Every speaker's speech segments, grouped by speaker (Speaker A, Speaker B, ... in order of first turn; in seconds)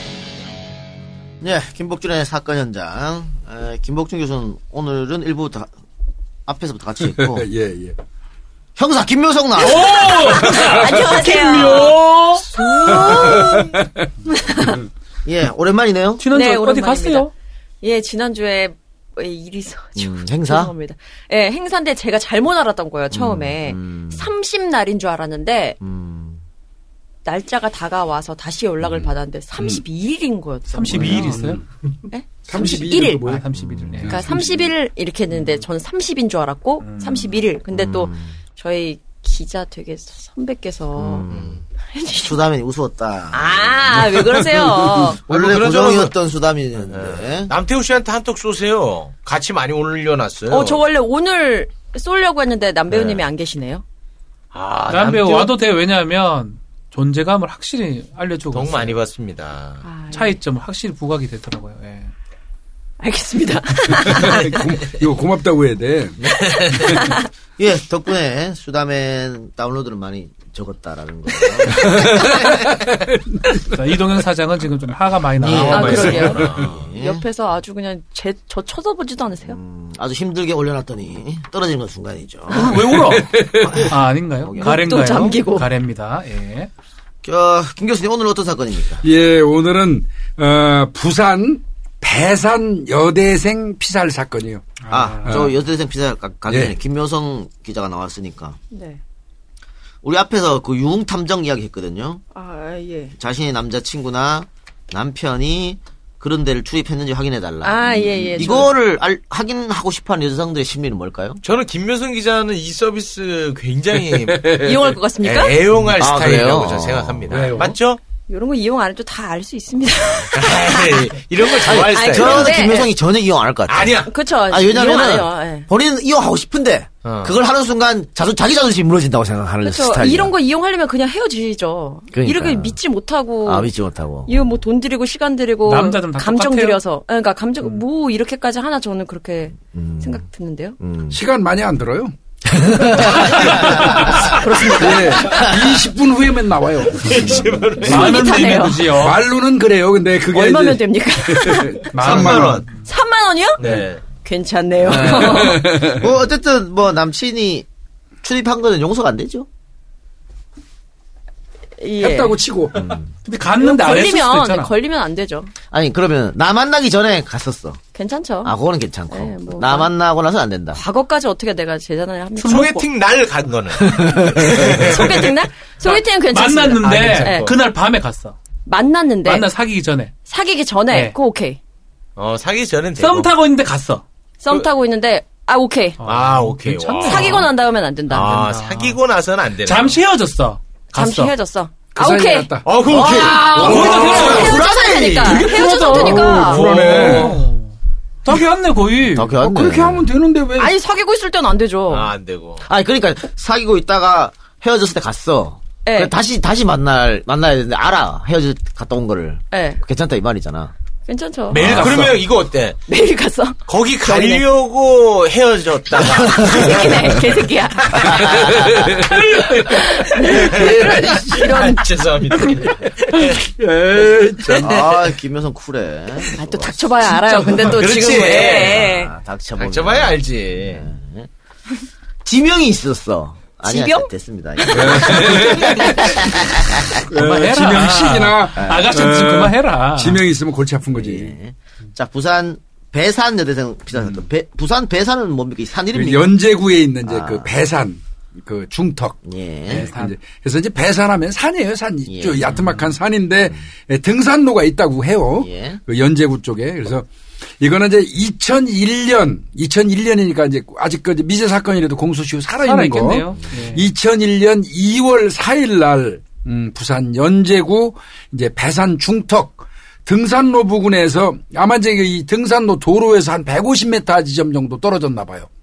Speaker A: 1.4-5.7, 6.5-7.5, 8.8-10.3, 13.2-13.5, 15.2-16.2, 19.9-20.7, 23.1-24.3, 25.8-26.4, 33.6-34.0, 37.7-38.3, 41.0-41.6, 42.1-44.1, 45.1-47.5, 67.6-72.5, 75.4-77.2, 79.5-82.9, 83.6-85.0, 87.2-89.0, 94.9-98.6, 100.0-102.2, 103.2-111.4, 115.9-117.5, 121.6-130.3, 132.1-132.8, 133.4-134.6, 139.7-140.2, 140.8-141.2, 142.5-144.1, 154.8-157.7, 158.2-159.5, 162.7-163.1, 165.7-167.8, 168.4-170.8, 174.1-174.9, 192.9-195.6, 199.1-200.1, 202.6-210.7, 218.0-219.0, 224.6-227.1, 228.3-231.3, 232.2-237.0, 238.6-238.9, 240.9-246.2, 247.0-247.5, 249.2-249.9, 252.1-252.7, 255.4-255.8
Speaker B: 7.0-8.0, 10.2-10.9, 12.9-14.1, 30.9-31.6, 32.5-33.5, 34.0-34.5, 64.0-66.2, 71.7-73.9, 82.8-83.9, 89.0-94.7, 95.3-95.5, 96.5-96.7, 114.1-114.9, 117.3-117.7, 141.1-142.1, 143.0-148.0, 148.9-152.7, 154.9-156.1, 162.0-162.8, 191.9-194.5, 195.9-197.4, 199.4-200.8, 211.6-212.2, 218.4-219.6, 220.2-221.5, 222.5-224.8, 227.4-227.7, 234.7-241.3, 245.9-257.1, 257.6-275.5
Speaker C: 9.6-12.5, 16.2-17.3, 30.7-31.6, 32.5-34.4, 36.8-37.4, 54.9-59.0, 60.1-62.1, 73.7-76.4, 82.5-86.7, 94.8-95.5, 135.6-136.8, 143.2-144.4, 147.8-149.2, 151.9-152.8, 163.2-164.7, 172.4-172.8, 175.8-178.4, 179.2-180.1, 183.0-184.0, 186.0-187.5, 188.1-189.0, 189.6-191.3, 193.1-194.6, 195.2-197.7, 198.2-199.3, 211.5-212.2, 237.1-240.2, 249.7-250.1, 252.4-252.9, 262.6-263.9
Speaker D: 10.1-12.0, 12.5-14.8, 16.3-17.3, 17.8-25.8, 27.2-31.4, 32.1-33.2, 34.1-41.3, 41.9-42.4, 43.3-45.2, 50.5-53.8, 59.8-60.3, 63.0-64.6, 66.4-67.2, 75.6-79.6, 84.6-85.7, 98.7-99.0, 102.3-103.1, 107.6-108.7, 114.5-115.6, 118.3-122.9, 124.0-125.7, 129.6-133.7, 134.2-140.8, 143.2-145.6, 147.8-148.9, 150.3-155.8, 161.8-162.4, 163.6-165.5, 167.9-168.5, 169.1-169.9, 170.7-172.8, 174.5-177.5, 178.6-179.4, 180.3-181.6, 184.4-186.0, 187.0-188.3, 190.9-192.5, 194.0-196.9, 200.6-202.1, 205.8-206.1, 209.5-209.8, 211.1-211.8, 212.9-213.6, 214.1-214.3, 216.1-218.4, 219.3-221.9, 224.6-225.0, 226.3-229.1, 233.6-236.5
Speaker E: 41.3-41.6, 44.1-46.1, 46.9-50.8, 52.9-53.2, 54.5-55.5, 58.5-59.8, 75.5-76.8, 111.4-118.0, 120.3-122.8, 123.7-124.1, 127.0-127.4, 146.9-148.3, 151.9-152.7, 153.6-154.0, 172.4-175.1, 176.8-177.5, 182.2-183.3, 186.0-187.5, 188.1-190.0, 192.6-197.4, 201.9-202.6, 211.5-212.8, 213.7-219.1, 220.1-223.4, 227.5-228.9, 229.6-230.8